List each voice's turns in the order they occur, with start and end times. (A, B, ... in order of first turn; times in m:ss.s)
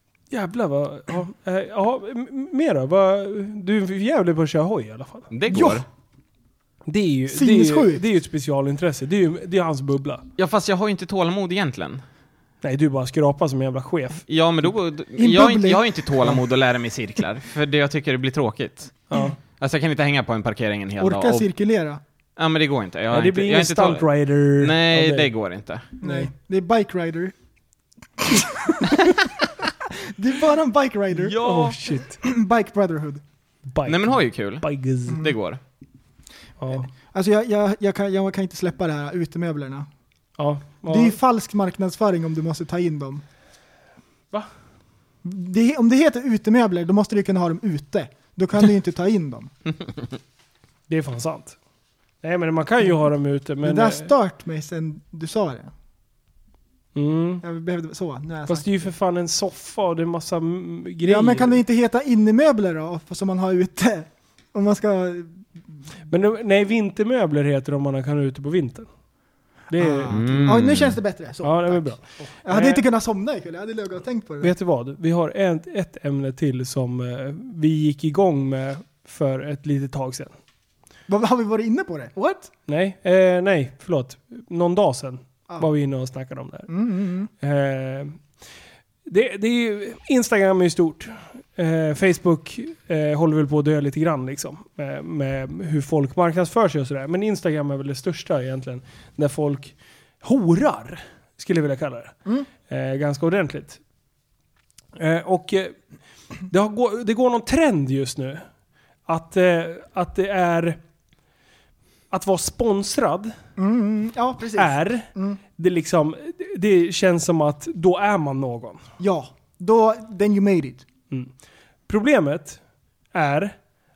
0:00.3-0:05.3 A
0:05.3-0:05.8 B
0:05.5-0:05.8 C
0:06.9-0:10.2 A
0:07.3-0:08.0 C
0:10.4-0:12.0 B
0:12.6-0:14.2 A
0:14.3-0:21.5 B
0:15.2-0:16.4 C
0:19.1-0:19.3 A
0:21.0-0:22.0 C
0:22.4-0:26.0 B
0:23.1-0:25.3 A
0:26.0-0:27.3 C
0:28.2-0:29.2 C
0:30.0-0:31.4 C
0:31.2-0:31.8 B
0:31.4-0:32.2 A
0:32.0-0:33.2 C
0:33.7-0:35.2 A
0:33.8-0:35.6 B
0:35.1-0:35.3 C
0:36.6-0:36.9 A
0:36.9-0:39.9 C
0:40.4-0:41.2 A
0:40.9-0:43.2 C
0:45.2-0:49.5 C
0:50.9-0:51.6 A
0:52.2-0:54.1 A
0:53.6-0:55.7 C
0:56.9-0:57.4 A
0:57.4-0:58.9 C
0:58.5-1:01.6 A
1:01.0-1:05.4 C
1:06.1-1:08.9 A
1:09.7-1:10.5 A
1:09.8-1:14.5 C
1:10.1-1:11.0 B
1:11.4-1:12.8 A
1:14.4-1:20.3 A
1:21.1-1:22.5 C
1:22.7-1:26.7 A
1:26.7-1:27.3 C
1:27.4-1:28.2 A
1:29.0-1:43.8 A
1:45.0-1:45.8 A
1:46.5-1:48.4 A
1:49.1-1:50.8 A
1:52.1-1:53.3 A
1:53.6-1:55.4 C
1:54.6-1:58.8 A
1:59.0-2:00.8 C
2:01.9-2:02.6 A
2:03.1-2:03.6 A